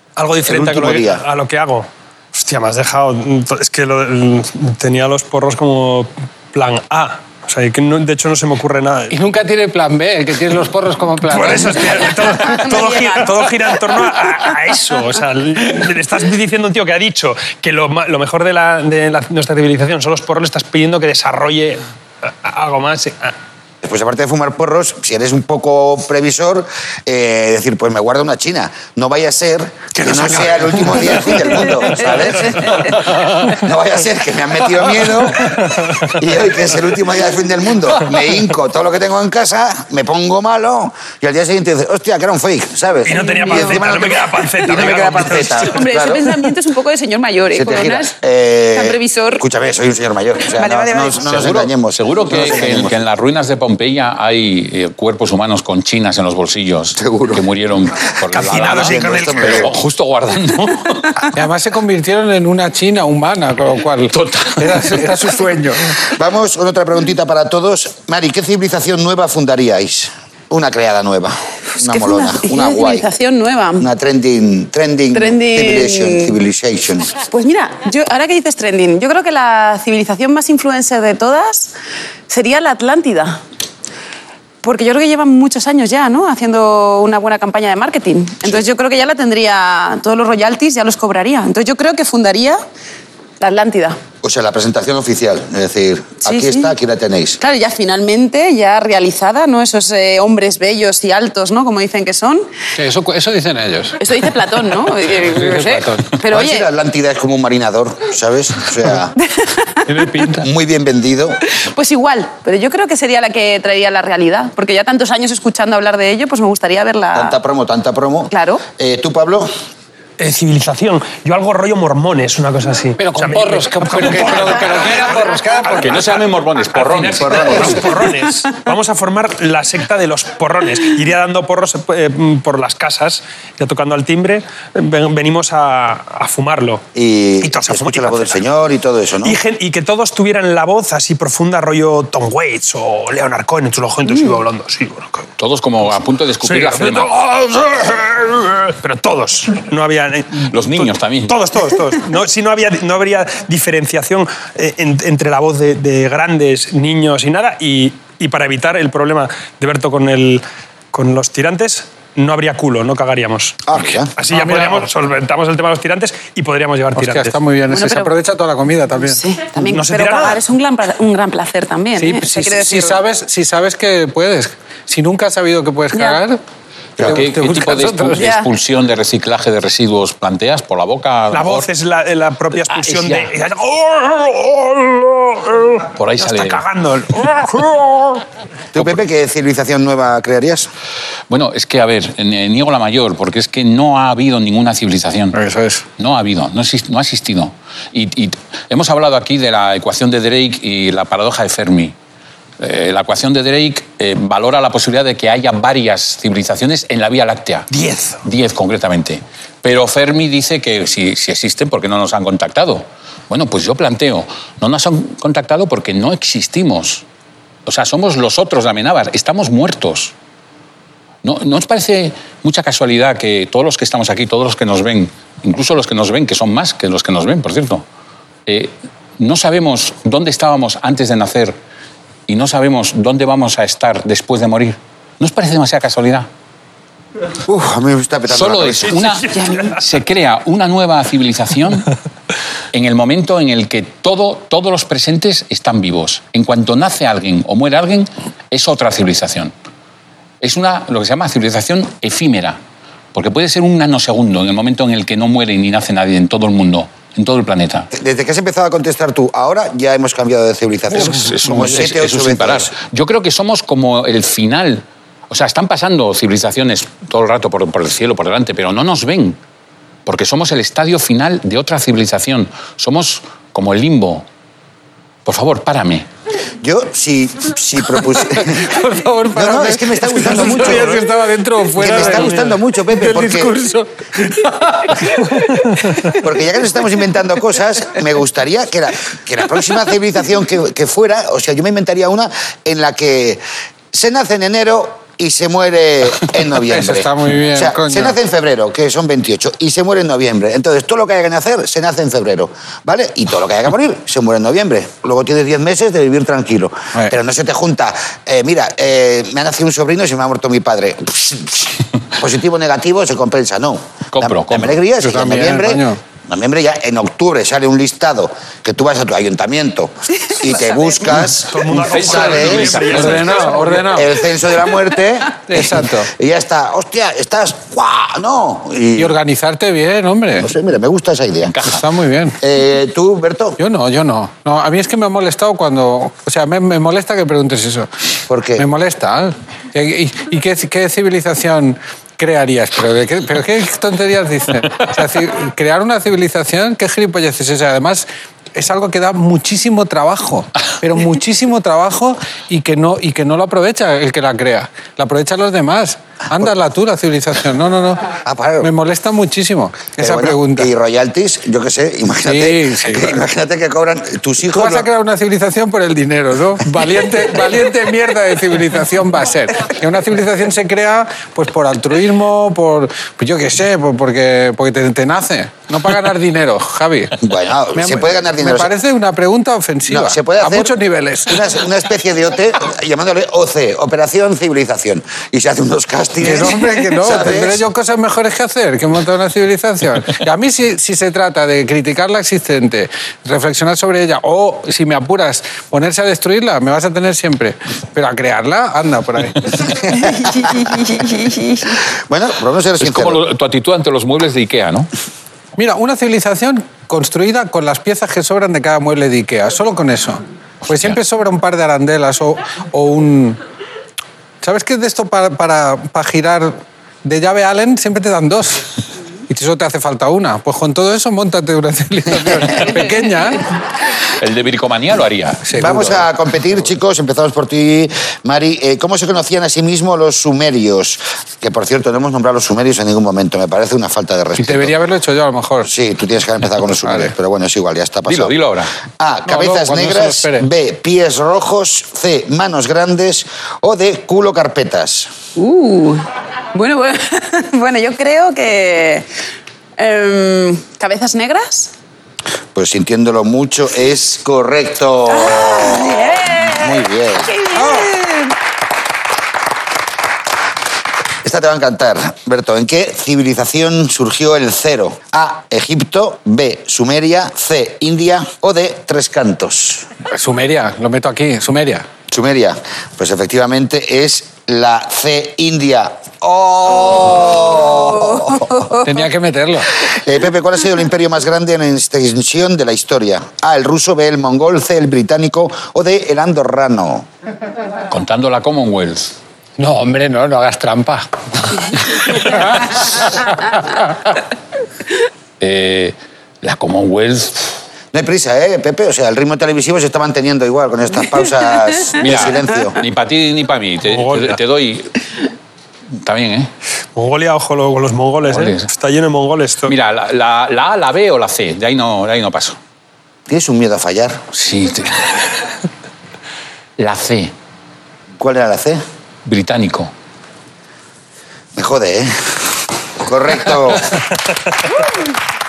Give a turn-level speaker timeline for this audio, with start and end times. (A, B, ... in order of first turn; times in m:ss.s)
0:00.2-0:09.2 A
0:00.4-0:01.2 B
0:09.1-0:12.6 C
0:11.2-0:21.8 A
0:12.4-0:13.4 D
0:22.4-0:23.3 A
0:23.8-0:46.4 B
0:30.0-0:32.6 A
0:32.0-0:32.9 D
0:35.4-0:36.0 A
0:43.0-0:45.7 A
0:43.3-0:44.0 D
0:45.6-0:48.1 D
0:47.5-0:53.0 B
0:48.7-0:49.4 D
0:50.5-0:51.3 D
0:51.2-1:01.3 E
0:57.0-0:57.4 B
0:58.3-0:59.7 A
0:58.3-0:59.7 B
1:01.3-1:06.0 C
1:04.1-1:04.9 E
1:06.0-1:13.1 B
1:11.8-1:13.9 D
1:13.8-1:17.2 B
1:15.1-1:16.3 D
1:17.3-1:21.7 D
1:22.3-1:23.4 D
1:24.6-1:32.6 D
1:33.4-1:34.0 D
1:34.2-1:37.4 B
1:36.2-1:36.7 D
1:37.4-1:42.5 D
1:42.8-1:44.0 C
1:44.0-1:46.7 D
1:45.3-1:46.1 C
1:46.3-1:49.2 B
1:49.2-1:50.1 D
1:49.9-1:50.4 C
1:50.4-1:51.4 B
1:51.6-1:57.4 D
1:57.1-1:59.5 B
1:58.3-1:58.6 D
2:00.2-2:16.8 A
2:03.0-2:06.0 C
2:05.8-2:07.9 E
2:16.9-2:19.4 B
2:17.4-2:18.4 A
2:19.2-2:25.2 A
2:25.4-2:27.2 E
2:26.4-2:47.4 A
2:30.5-2:31.4 E
2:43.7-2:44.1 B
2:44.3-2:44.9 C
2:46.9-2:49.2 C
2:47.7-2:48.1 D
2:49.1-2:53.0 D
2:49.7-2:50.4 A
2:52.0-2:56.4 C
2:55.9-2:56.2 D
2:57.0-3:01.7 E
2:57.0-2:58.3 C
2:58.2-2:58.5 D
3:01.3-3:08.2 A
3:02.7-3:03.3 E
3:06.0-3:06.6 E
3:08.7-3:10.7 B
3:11.3-3:15.4 E
3:15.3-3:15.8 C
3:16.0-3:21.9 E
3:22.6-3:27.7 E
3:27.7-3:28.2 A
3:28.2-3:37.0 E
3:37.6-3:40.1 E
3:41.2-3:47.8 E
3:48.5-3:51.6 E
3:52.3-3:56.3 E
3:57.4-3:59.0 B
3:58.3-4:01.9 E
3:58.9-3:59.8 A
4:02.7-4:09.5 E
4:10.4-4:12.6 E
4:13.1-4:17.9 E
4:17.9-4:22.7 B
4:20.9-4:29.4 E
4:30.0-4:34.2 E
4:35.2-4:36.1 E
4:36.6-4:38.8 B
4:38.4-4:46.0 C
4:39.3-4:41.0 B
4:40.4-4:41.0 A
4:41.8-4:42.5 A
4:41.8-4:43.6 B
4:45.4-4:45.9 A
4:46.1-4:53.4 B
4:53.9-5:22.8 B
4:56.5-4:58.2 C
5:14.1-5:14.8 E
5:15.0-5:16.0 C
5:20.3-5:21.3 D
5:21.3-5:23.9 A
5:21.7-5:23.5 E
5:22.9-5:24.1 C
5:23.9-5:29.2 B
5:25.5-5:26.1 C
5:29.0-5:30.5 C
5:30.4-5:31.5 B
5:31.4-5:31.8 E
5:31.6-5:32.4 C
5:32.4-5:33.6 B
5:33.6-5:37.9 C
5:38.3-5:38.7 B
5:38.6-5:58.1 C
5:58.2-5:58.7 B
5:58.6-6:00.7 C
6:00.0-6:04.9 B
6:02.2-6:03.2 C
6:04.5-6:17.2 C
6:17.2-6:18.7 B
6:17.7-6:21.4 C
6:19.9-6:20.7 B
6:21.3-6:27.6 B
6:26.2-6:39.8 C
6:39.9-6:41.8 D
6:42.1-6:43.2 B
6:42.8-6:44.9 E
6:45.6-6:53.4 C
6:50.6-6:51.0 E
6:54.4-6:58.6 C
6:59.3-7:03.4 C
7:04.1-7:05.4 E
7:05.4-7:06.0 C
7:05.6-7:14.8 B
7:14.4-7:15.7 C
7:15.6-7:18.4 B
7:16.8-7:17.1 C
7:18.1-7:18.7 E
7:19.0-7:25.1 B
7:19.3-7:20.4 C
7:25.4-7:29.0 D
7:29.8-7:31.7 D
7:32.5-7:37.8 B
7:35.1-7:38.4 D
7:41.2-7:49.8 B
7:50.1-7:51.8 C
7:52.1-7:58.7 B
7:57.6-7:58.8 D
7:58.8-7:59.7 C
7:59.8-8:07.1 B
8:07.9-8:09.1 E
8:09.6-8:14.1 C
8:15.4-8:17.6 E
8:17.9-8:22.8 B
8:22.0-8:24.9 E
8:23.8-8:24.4 A
8:26.0-8:26.5 E
8:27.0-8:29.7 A
8:28.3-8:28.7 E
8:29.7-8:32.6 E
8:33.3-8:34.2 B
8:34.3-8:35.3 E
8:36.8-8:37.3 E
8:38.2-8:38.8 B
8:39.2-8:39.9 E
8:41.5-8:44.1 B